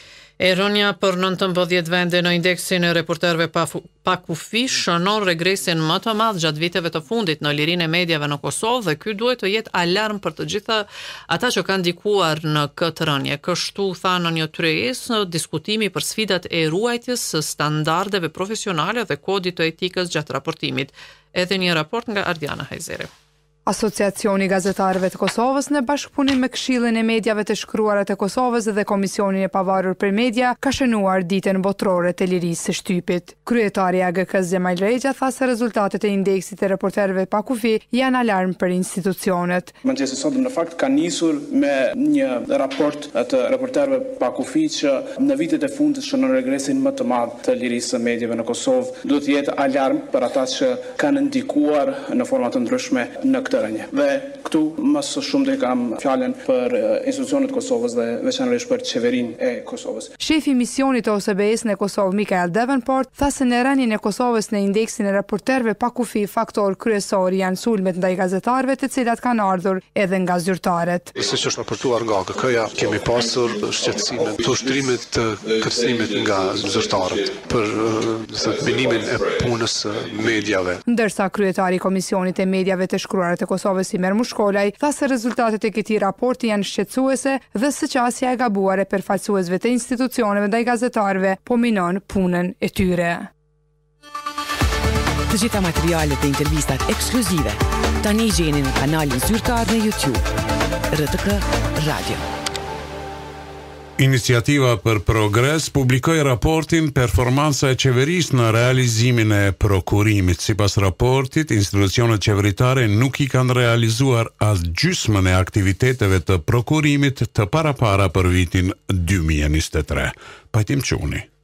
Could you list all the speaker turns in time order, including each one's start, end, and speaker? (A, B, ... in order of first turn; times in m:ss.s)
0:00.4-0:23.1 A
0:23.7-0:39.7 B
0:39.8-1:00.1 C
1:00.2-1:11.1 B
1:11.3-1:20.8 D
1:20.9-1:33.3 B
1:35.3-1:40.2 E
1:40.9-1:42.2 E
1:44.0-2:01.3 F